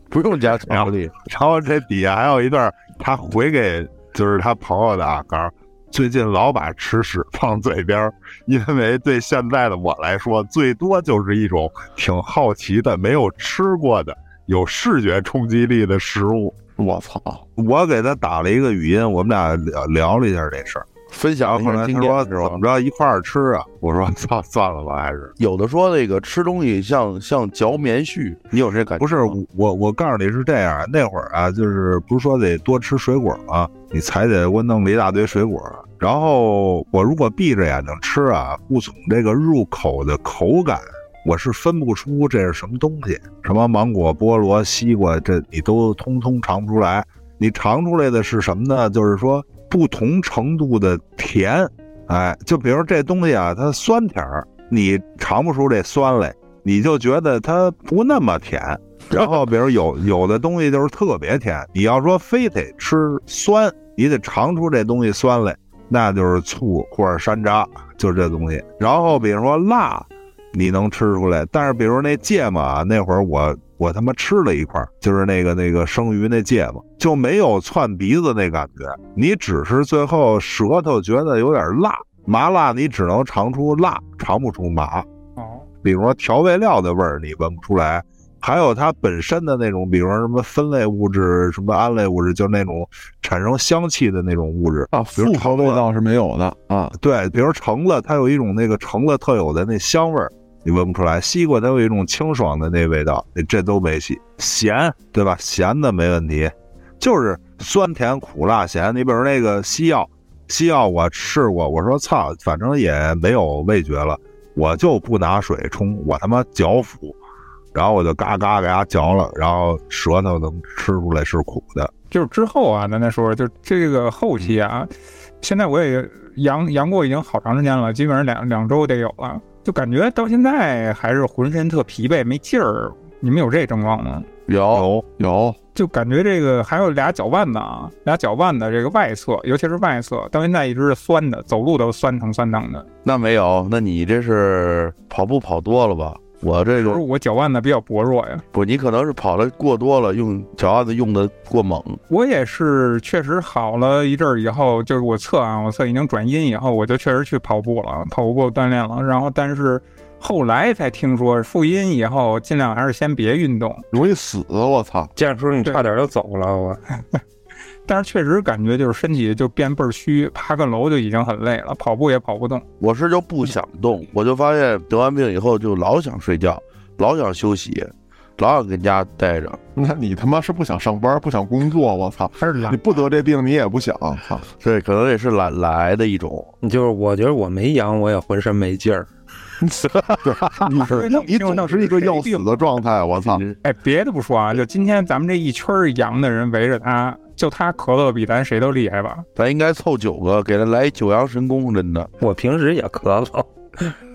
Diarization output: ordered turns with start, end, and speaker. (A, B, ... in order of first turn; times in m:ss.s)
0:00.1-0:01.1 A
0:00.6-0:16.6 B
0:16.8-0:17.4 C
0:17.6-0:20.9 B
0:21.1-0:22.6 A
0:21.4-0:25.3 B
0:25.4-0:29.3 A
0:29.0-1:25.0 B
1:25.4-1:25.6 D
1:25.8-1:35.8 B
1:34.9-1:36.9 C
1:37.0-1:57.2 B
1:57.7-2:01.9 B
2:02.1-2:14.3 D
2:14.5-2:14.9 A
2:14.7-2:15.0 B
2:15.2-2:15.6 C
2:15.7-2:22.9 D
2:23.0-2:27.0 A
2:26.8-2:28.4 D
2:28.5-2:32.0 A
2:32.1-2:43.8 D
2:43.9-2:45.1 C
2:45.2-2:46.8 E
2:47.8-2:52.6 D
2:52.8-2:59.6 A
2:59.8-3:04.4 C
3:02.4-3:02.8 D
3:04.6-3:06.5 A
3:06.6-3:09.1 E
3:09.6-3:13.4 C
3:09.9-3:10.9 A
3:10.8-3:12.5 D
3:13.2-3:13.6 A
3:13.6-3:19.2 D
3:19.4-3:22.1 A
3:22.2-3:23.9 E